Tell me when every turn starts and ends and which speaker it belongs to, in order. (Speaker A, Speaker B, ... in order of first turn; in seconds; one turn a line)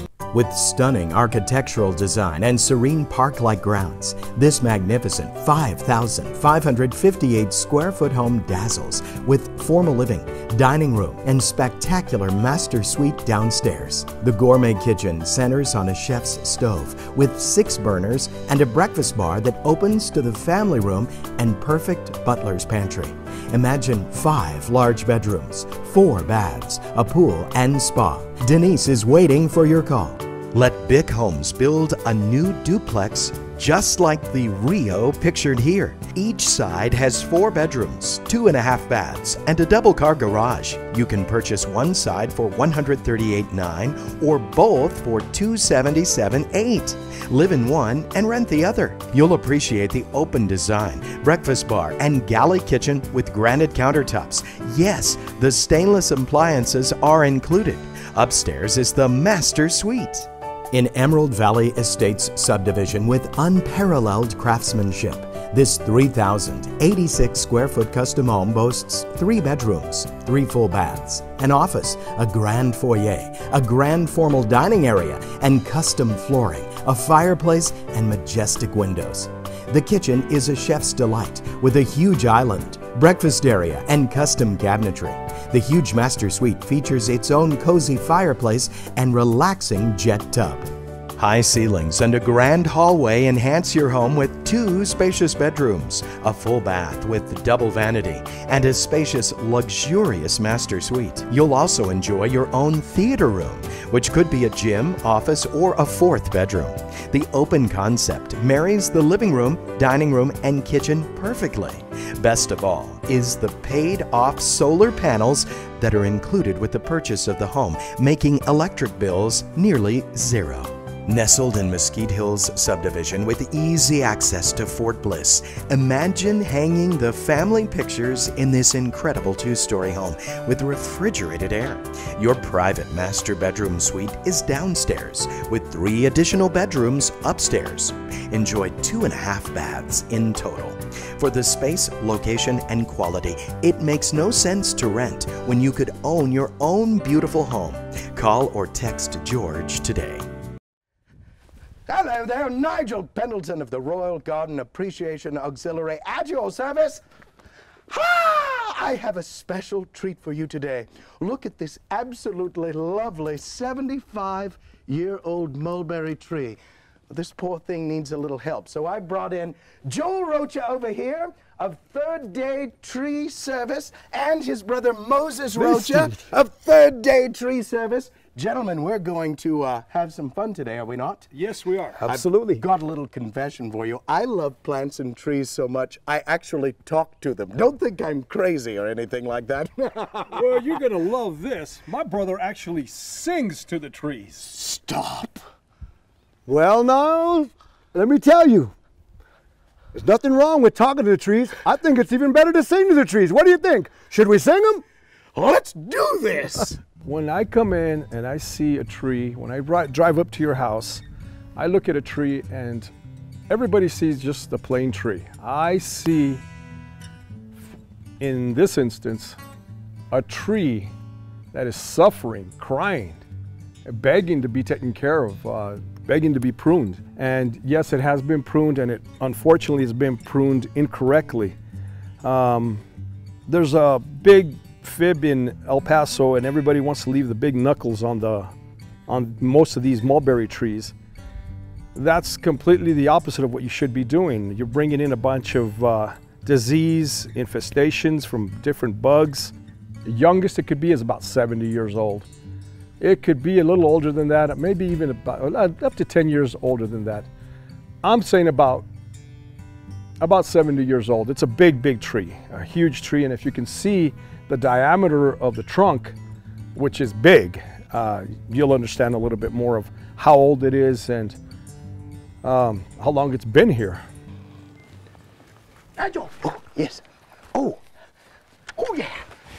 Speaker A: 0.3-150.3
Speaker B: 151.9-157.0
Speaker B: 157.9-181.3
Speaker C: 175.6-176.1
Speaker D: 181.3-182.2
Speaker B: 182.1-190.5
Speaker C: 182.2-182.6
Speaker D: 190.3-194.5
Speaker C: 196.5-198.7
Speaker C: 199.9-204.8
Speaker B: 205.3-206.8
Speaker D: 207.0-211.0
Speaker D: 211.6-212.9
Speaker D: 213.5-216.4
Speaker D: 218.2-219.4
Speaker D: 220.1-220.9
Speaker D: 221.5-223.2
Speaker D: 223.9-231.6
Speaker D: 232.2-232.8
Speaker D: 233.5-238.5
Speaker D: 239.1-240.9
Speaker D: 241.9-249.5
Speaker D: 250.1-252.3
Speaker D: 253.0-257.3
Speaker D: 258.0-258.9
Speaker D: 260.2-266.2
Speaker D: 266.7-271.4
Speaker D: 272.4-274.0
Speaker B: 276.0-277.0
Speaker B: 277.5-277.8
Speaker B: 278.8-279.2